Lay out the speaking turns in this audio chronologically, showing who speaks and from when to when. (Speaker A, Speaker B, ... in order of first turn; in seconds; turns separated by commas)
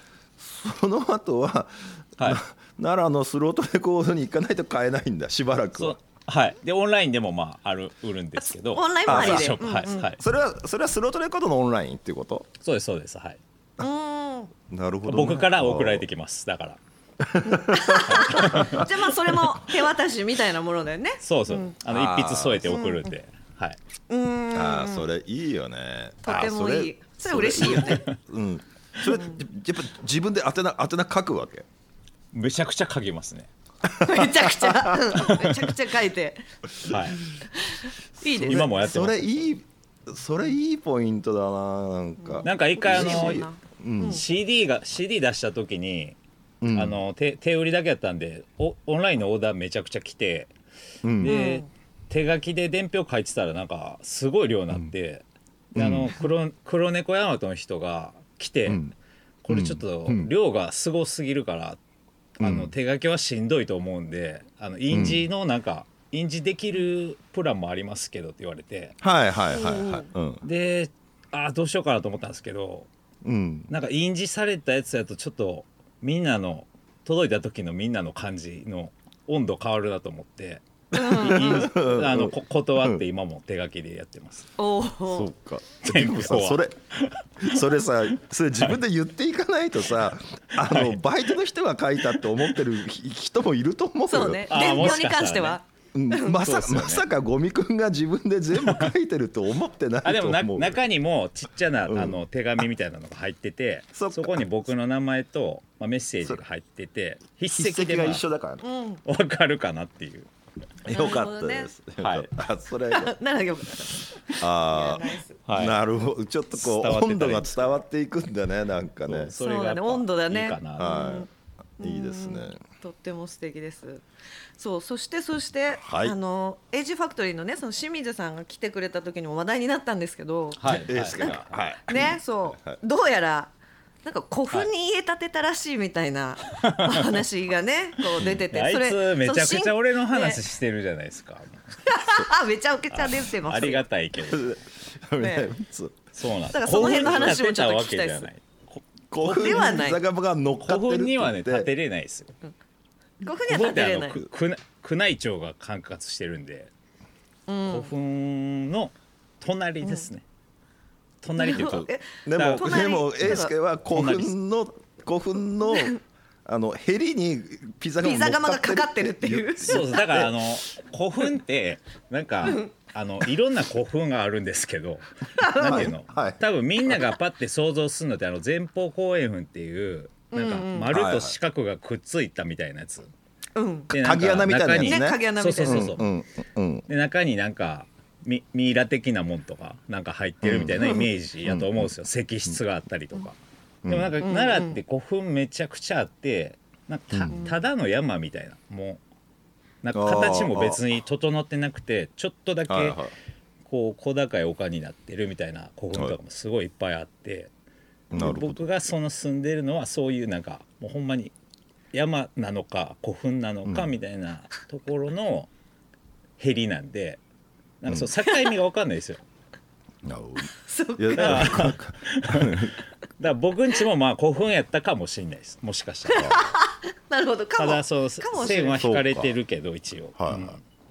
Speaker A: 0.4-6.0, Speaker B: 5.7-10.2, Speaker C: 8.6-10.0, Speaker A: 9.1-12.5, Speaker B: 12.6-13.4, Speaker C: 13.8-14.5, Speaker A: 14.7-16.0, Speaker B: 15.0-16.8, Speaker A: 17.2-18.9, Speaker C: 17.4-21.7, Speaker B: 18.0-18.9, Speaker B: 21.2-23.8, Speaker A: 21.9-22.8, Speaker C: 22.7-23.1, Speaker C: 24.1-25.1, Speaker A: 24.5-31.6, Speaker C: 26.2-28.0, Speaker B: 27.7-28.1, Speaker B: 32.3-33.5, Speaker C: 34.0-36.4, Speaker A: 34.0-34.5, Speaker B: 35.1-35.5, Speaker B: 36.8-37.2, Speaker C: 37.5-38.7, Speaker A: 38.2-44.2, Speaker B: 38.4-39.5, Speaker C: 42.2-44.2, Speaker B: 42.4-43.4, Speaker B: 44.0-46.1, Speaker A: 46.6-47.0, Speaker B: 46.7-50.5, Speaker A: 51.0-51.5, Speaker B: 51.2-58.8, Speaker C: 51.2-51.7, Speaker A: 55.7-56.1, Speaker A: 58.6-58.9, Speaker B: 59.4-61.8, Speaker A: 59.5-60.3, Speaker B: 62.4-69.0, Speaker A: 62.4-62.7, Speaker A: 64.9-65.2, Speaker A: 69.0-70.4, Speaker C: 69.5-70.0, Speaker B: 70.4-72.9, Speaker A: 73.2-73.7, Speaker B: 73.7-84.5, Speaker C: 80.9-81.7, Speaker A: 80.9-83.0, Speaker C: 84.6-85.3, Speaker A: 85.1-86.7, Speaker B: 85.8-87.2, Speaker A: 87.4-94.9, Speaker B: 90.6-91.0, Speaker C: 94.1-96.5, Speaker B: 94.5-95.6, Speaker A: 95.9-100.8, Speaker B: 96.3-97.0, Speaker B: 98.6-98.9, Speaker B: 100.0-108.2, Speaker A: 101.9-102.2, Speaker A: 103.9-104.5, Speaker A: 107.5-108.6, Speaker C: 108.6-109.0, Speaker B: 109.0-110.3, Speaker A: 110.8-113.2, Speaker C: 110.9-111.7, Speaker B: 112.0-112.3, Speaker C: 112.9-115.4, Speaker A: 114.4-119.3, Speaker B: 115.5-115.8, Speaker B: 116.5-117.7, Speaker B: 119.1-121.2, Speaker C: 119.3-121.3, Speaker A: 120.8-121.3, Speaker A: 121.8-122.6, Speaker C: 121.8-124.0, Speaker C: 124.6-133.5, Speaker A: 125.7-126.1, Speaker B: 130.6-131.5, Speaker A: 130.7-132.8, Speaker C: 134.0-140.4, Speaker B: 136.6-137.2, Speaker B: 138.2-141.8, Speaker C: 141.8-143.8, Speaker B: 142.9-144.5, Speaker A: 144.2-146.0, Speaker C: 145.2-145.5, Speaker B: 146.1-148.8, Speaker C: 146.5-148.3, Speaker A: 146.8-147.3, Speaker A: 149.1-151.7, Speaker C: 149.2-150.0, Speaker B: 150.6-152.3, Speaker C: 153.2-154.2, Speaker B: 153.4-156.7, Speaker C: 157.5-157.9, Speaker B: 157.7-160.2, Speaker C: 159.8-160.1, Speaker B: 161.2-164.3, Speaker C: 161.4-163.5, Speaker A: 161.5-170.3, Speaker C: 168.0-169.9, Speaker B: 169.6-183.1, Speaker C: 175.4-175.9, Speaker A: 175.6-176.4, Speaker C: 180.3-180.9, Speaker A: 180.9-181.4, Speaker C: 183.5-183.9, Speaker B: 183.9-186.1, Speaker A: 183.9-186.8, Speaker C: 184.8-185.9, Speaker B: 186.9-193.4, Speaker A: 190.4-191.9, Speaker A: 193.8-194.2, Speaker B: 193.9-199.0, Speaker C: 194.2-194.8, Speaker A: 197.1-197.5, Speaker B: 199.8-203.0, Speaker A: 199.9-200.8, Speaker A: 202.7-203.1, Speaker B: 203.6-207.5, Speaker A: 208.1-208.6, Speaker B: 208.1-211.3, Speaker B: 211.9-215.5, Speaker B: 216.4-217.2, Speaker B: 217.8-219.2, Speaker A: 220.0-222.8, Speaker C: 220.7-221.6, Speaker B: 221.1-226.5, Speaker C: 226.1-228.8, Speaker B: 227.6-230.6, Speaker A: 228.3-229.3, Speaker A: 230.2-230.6